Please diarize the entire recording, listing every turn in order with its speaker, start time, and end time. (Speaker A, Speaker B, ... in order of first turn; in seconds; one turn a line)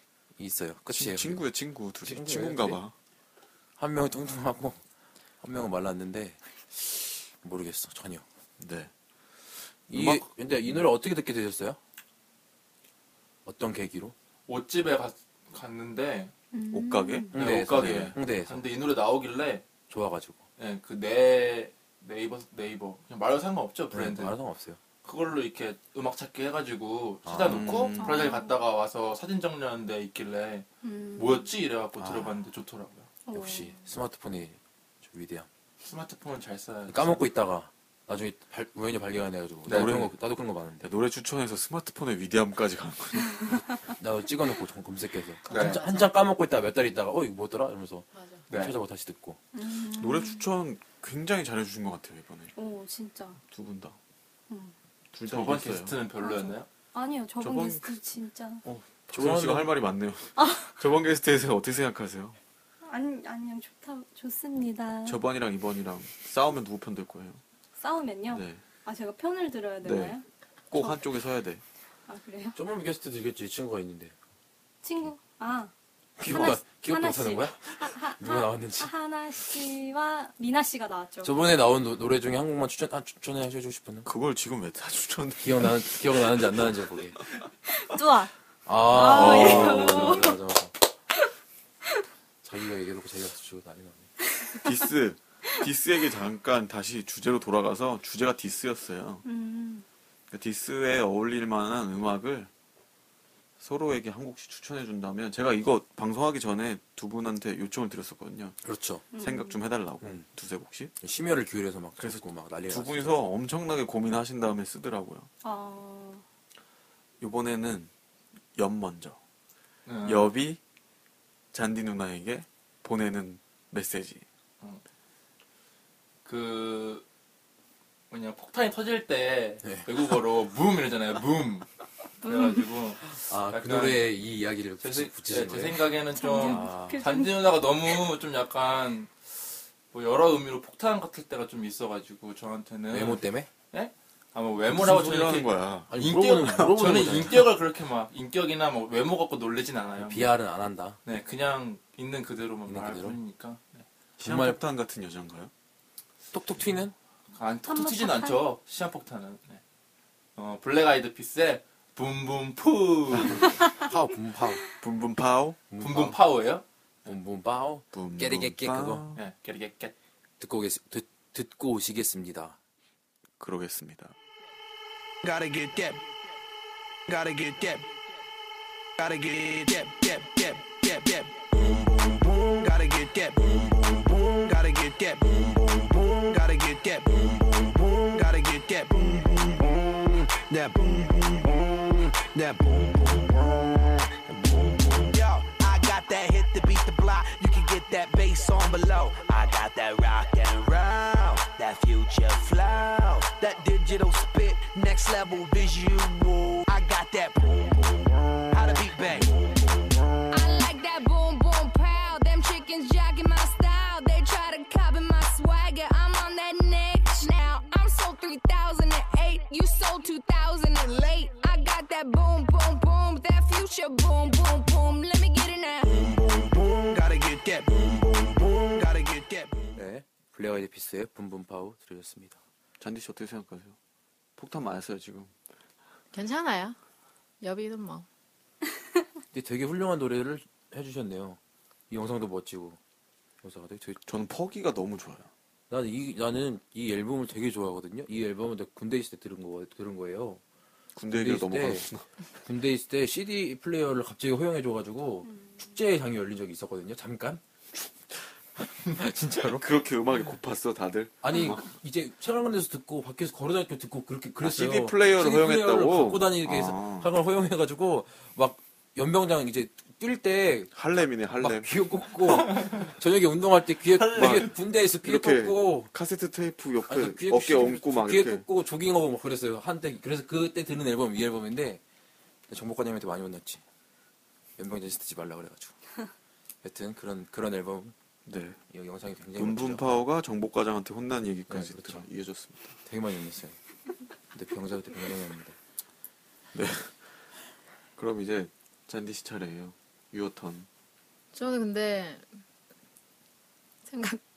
Speaker A: 0.4-1.4
Speaker B: 0.9-2.9
Speaker A: 2.0-2.8
Speaker A: 3.8-4.8
Speaker A: 5.4-8.2
Speaker B: 8.6-8.9
Speaker B: 9.9-10.8
Speaker A: 9.9-11.8
Speaker A: 13.4-14.2
Speaker C: 14.5-16.3
Speaker D: 16.5-17.3
Speaker B: 16.7-18.1
Speaker A: 17.3-18.6
Speaker C: 17.3-19.7
Speaker A: 19.9-20.4
Speaker C: 20.6-24.4
Speaker A: 23.9-24.8
Speaker C: 25.0-33.1
Speaker A: 27.2-27.9
Speaker B: 27.5-28.4
Speaker D: 28.0-28.6
Speaker D: 30.8-31.5
Speaker A: 32.0-32.4
Speaker D: 33.3-33.8
Speaker A: 33.3-35.5
Speaker C: 35.8-37.3
Speaker A: 36.9-40.9
Speaker C: 39.7-40.1
Speaker B: 39.7-40.1
Speaker B: 40.8-43.6
Speaker A: 44.0-49.4
Speaker C: 45.5-45.8
Speaker E: 48.1-48.5
Speaker C: 48.5-48.8
Speaker D: 49.5-50.5
Speaker B: 49.9-52.5
Speaker D: 52.6-53.4
Speaker B: 53.5-54.0
Speaker D: 54.5-54.8
Speaker B: 55.1-56.0
Speaker C: 55.3-56.7
Speaker D: 56.2-58.6
Speaker B: 57.4-57.9
Speaker B: 58.6-62.4
Speaker A: 59.1-59.7
Speaker D: 60.4-60.7
Speaker D: 62.8-65.2
Speaker B: 65.1-67.4
Speaker D: 67.8-71.0
Speaker B: 68.3-68.6
Speaker B: 69.8-70.2
Speaker B: 70.7-71.6
Speaker D: 72.1-72.6
Speaker A: 72.5-74.2
Speaker D: 74.8-75.7
Speaker A: 76.2-78.9
Speaker D: 76.2-81.3
Speaker A: 81.2-84.1
Speaker B: 84.0-86.7
Speaker A: 85.4-87.2
Speaker D: 87.7-88.3
Speaker A: 88.7-90.7
Speaker D: 88.8-90.4
Speaker B: 88.9-90.3
Speaker A: 92.4-94.1
Speaker D: 94.3-94.6
Speaker B: 94.6-99.2
Speaker D: 99.2-99.9
Speaker B: 100.3-102.5
Speaker B: 103.6-108.6
Speaker A: 108.6-109.0
Speaker D: 109.1-109.6
Speaker B: 109.2-110.9
Speaker A: 111.0-113.2
Speaker B: 112.0-115.3
Speaker D: 115.4-116.2
Speaker B: 117.2-117.9
Speaker B: 118.5-119.2
Speaker C: 119.9-120.3
Speaker B: 120.0-120.6
Speaker B: 121.5-124.2
Speaker C: 126.2-127.0
Speaker C: 128.1-131.7
Speaker A: 129.6-129.9
Speaker D: 132.2-132.7
Speaker C: 132.2-134.1
Speaker A: 133.3-137.0
Speaker C: 134.8-150.3
Speaker D: 136.1-137.5
Speaker A: 142.9-143.5
Speaker B: 144.7-147.1
Speaker A: 145.9-147.5
Speaker A: 150.0-151.0
Speaker C: 151.1-153.8
Speaker A: 152.7-153.2
Speaker A: 154.2-154.6
Speaker B: 154.2-155.5
Speaker A: 156.3-156.9
Speaker C: 157.3-159.6
Speaker D: 157.7-158.5
Speaker C: 160.4-163.4
Speaker A: 163.8-164.6
Speaker B: 164.8-165.7
Speaker A: 165.7-166.2
Speaker C: 165.8-167.1
Speaker A: 167.1-169.1
Speaker B: 167.9-169.2
Speaker C: 169.2-169.9
Speaker A: 170.4-172.6
Speaker B: 173.4-174.2
Speaker F: 175.2-176.1
Speaker F: 177.1-177.9
Speaker F: 179.0-209.3
Speaker G: 210.3-225.9
Speaker F: 226.1-229.7
Speaker A: 229.8-232.4
Speaker B: 232.8-233.8
Speaker B: 234.4-235.3
Speaker E: 236.1-236.8
Speaker E: 237.4-238.1
Speaker A: 239.3-241.4
Speaker A: 241.9-242.8
Speaker A: 243.4-244.1
Speaker B: 244.1-245.3
Speaker A: 245.7-250.4
Speaker B: 251.0-252.1
Speaker A: 251.1-251.9
Speaker A: 252.4-257.4
Speaker A: 258.9-259.7
Speaker B: 259.5-261.7
Speaker A: 261.2-270.7
Speaker B: 264.4-267.1
Speaker B: 270.7-272.9
Speaker A: 271.4-275.9
Speaker B: 273.9-278.4
Speaker A: 276.9-281.8
Speaker A: 282.5-283.6
Speaker A: 284.6-285.7
Speaker A: 286.6-287.9
Speaker B: 288.3-288.6
Speaker A: 288.7-290.0
Speaker B: 289.4-292.8
Speaker A: 291.5-292.1
Speaker A: 292.9-293.6
Speaker A: 294.3-295.6
Speaker B: 296.5-297.2
Speaker B: 298.0-300.7
Speaker E: 301.3-302.4
Speaker E: 303.9-304.2